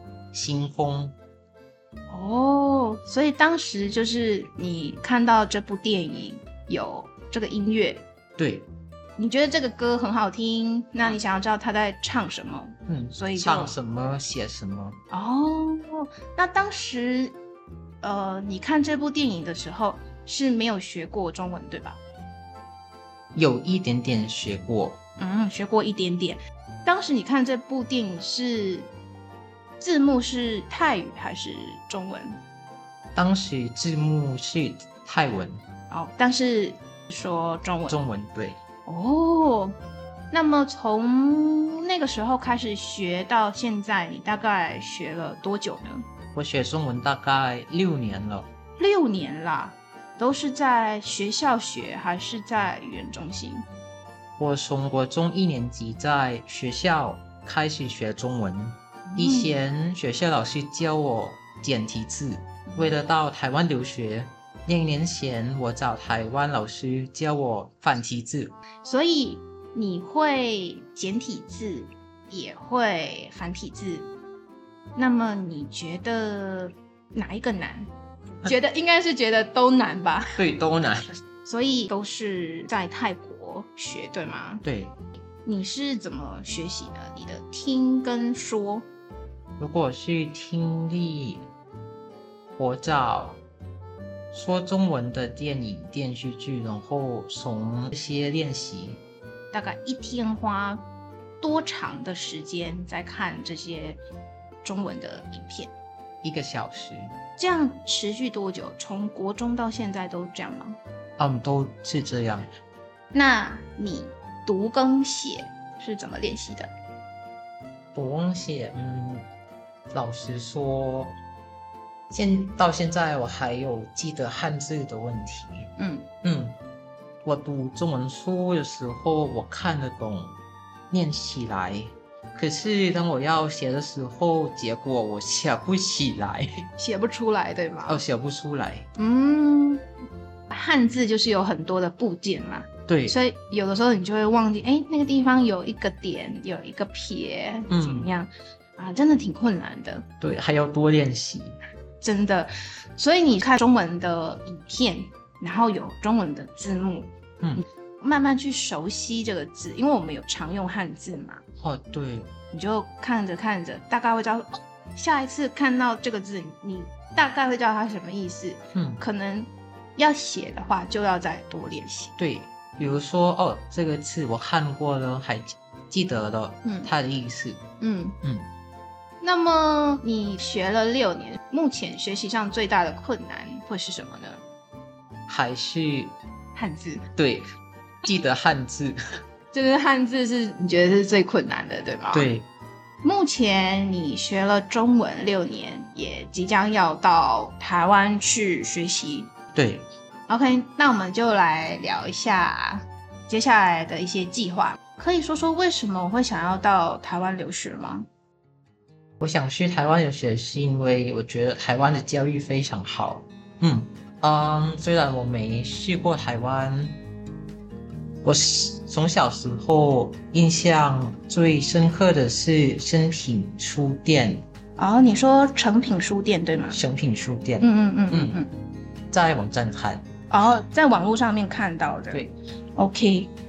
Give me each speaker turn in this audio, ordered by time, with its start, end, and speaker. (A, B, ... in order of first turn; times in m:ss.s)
0:00.3-0:01.1 A
0:02.1-0:08.0 B
0:08.4-0:08.7 A
0:09.2-0:13.8 B
0:12.9-0:15.0 A
0:15.1-0:17.4 B
0:18.0-0:22.0 B
0:23.3-0:25.0 A
0:25.2-0:28.9 B
0:29.8-0:32.4 B
0:33.2-0:35.6 A
0:35.9-0:38.0 B
0:37.9-0:38.6 A
0:38.8-0:39.8 B
0:40.3-0:46.0 B
0:46.3-0:48.5 A
0:48.8-0:53.7 B
0:54.4-1:08.5 A
0:59.1-0:59.6 B
1:08.8-1:14.1 B
1:15.0-1:17.9 B
1:18.4-1:20.4 B
1:20.3-1:21.1 A
1:21.4-1:24.6 B
1:24.6-1:25.0 A
1:25.4-1:28.8 B
1:29.6-1:31.5 A
1:32.6-1:33.4 A
1:34.3-1:39.0 A
1:39.5-1:40.8 B
1:41.4-1:44.0 B
1:44.6-1:45.7 B
1:46.2-1:47.1 A
1:47.4-1:50.8 B
1:51.2-1:52.5 A
1:53.1-1:56.7 B
1:57.9-1:59.3 A
1:59.9-2:01.2 A
2:02.1-2:05.7 A
2:05.8-2:06.1 B
2:06.2-2:06.6 A
2:07.2-2:10.4 A
2:10.9-2:16.5 A
2:16.8-2:18.0 B
2:17.9-2:18.9 A
2:19.0-2:19.8 B
2:20.5-2:30.1 B
2:22.9-2:23.2 A
2:27.7-2:28.1 A
2:30.2-2:31.6 A
2:32.0-2:37.1 B
2:38.0-2:41.4 B
2:41.6-2:42.3 A
2:42.5-2:52.1 B
2:48.8-2:49.0 A
2:52.2-2:57.6 A
2:56.6-2:56.9 B
2:57.8-2:58.2 B
2:58.2-2:58.5 A
2:59.2-3:04.4 B
3:05.3-3:06.2 A
3:06.6-3:07.1 B
3:07.2-3:07.4 A
3:08.0-3:09.0 A
3:09.5-3:12.3 B
3:12.1-3:12.5 A
3:13.0-3:19.3 B
3:19.5-3:19.9 A
3:20.3-3:28.1 B
3:29.2-3:37.0 A
3:38.2-3:44.4 A
3:44.8-3:46.8 B
3:46.7-3:48.4 A
3:47.6-3:48.5 B
3:49.1-3:50.0 A
3:50.3-3:53.3 B